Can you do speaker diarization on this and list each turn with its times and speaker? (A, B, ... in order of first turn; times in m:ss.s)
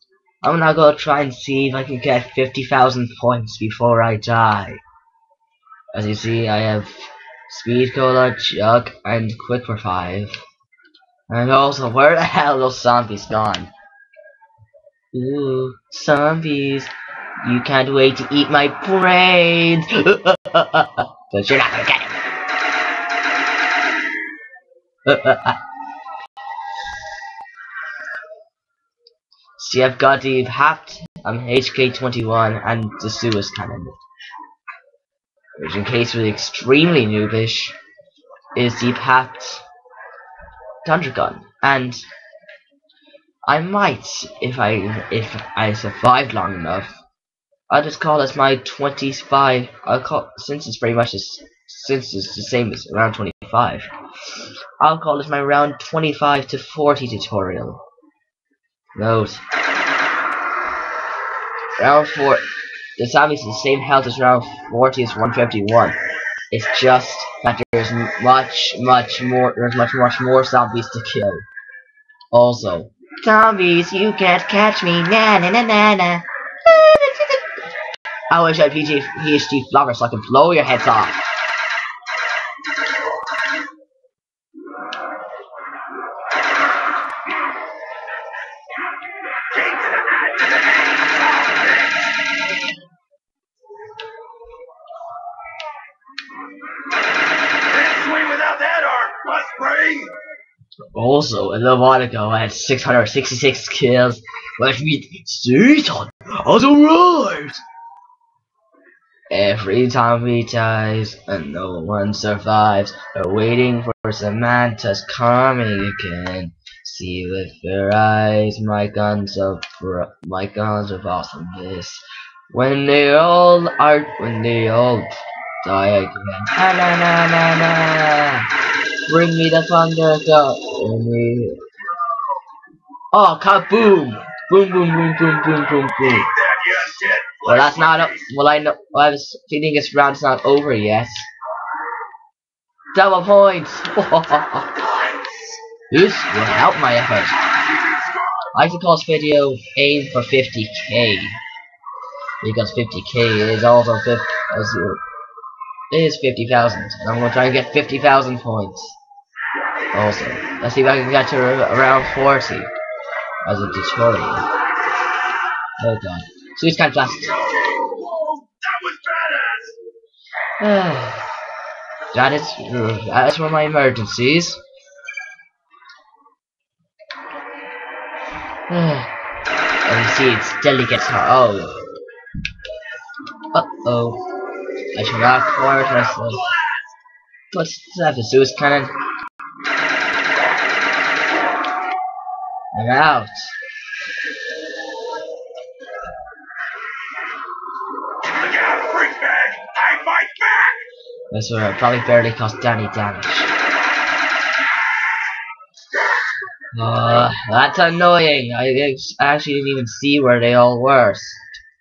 0:00.4-0:04.8 A
0:05.9-0:10.4 A
0:11.3-0:13.7 A
0:15.1-0:22.2 A
0:25.0-0:25.6 A
0:29.6-0:34.0 A
0:35.6-0:37.8 A
0:38.5-0:39.6 A
0:40.8-0:42.0 A
0:43.4-0:47.0 A
0:47.7-0:53.9 A
0:54.8-0:57.8 A
0:59.0-0:59.4 A
1:01.8-1:02.4 A
1:03.0-1:06.0 A
1:06.5-1:11.4 A
1:12.3-1:17.5 A
1:18.3-1:21.2 A
1:29.5-1:32.1 B
1:37.6-1:40.2 B
1:40.9-1:47.6 A
1:49.3-2:05.1 A
2:05.6-2:08.5 A
2:09.1-2:11.6 A
2:13.1-2:16.3 A
2:16.1-2:18.3 B
2:17.5-2:21.3 A
2:22.9-2:24.8 A
2:25.9-2:27.4 A
2:28.5-2:31.4 A
2:32.4-2:35.0 A
2:35.9-2:39.0 A
2:39.9-2:42.7 A
2:43.4-2:44.5 A
2:45.8-2:47.5 A
2:47.5-2:49.8 B
2:50.6-2:51.2 A
2:52.1-2:54.6 A
2:58.7-2:59.1 A
2:59.8-3:01.8 A
3:03.5-3:04.2 A
3:04.9-3:06.5 A
3:07.5-3:08.9 A
3:12.7-3:13.5 A
3:18.2-3:20.8 B
3:21.3-3:23.5 A
3:26.7-3:31.4 A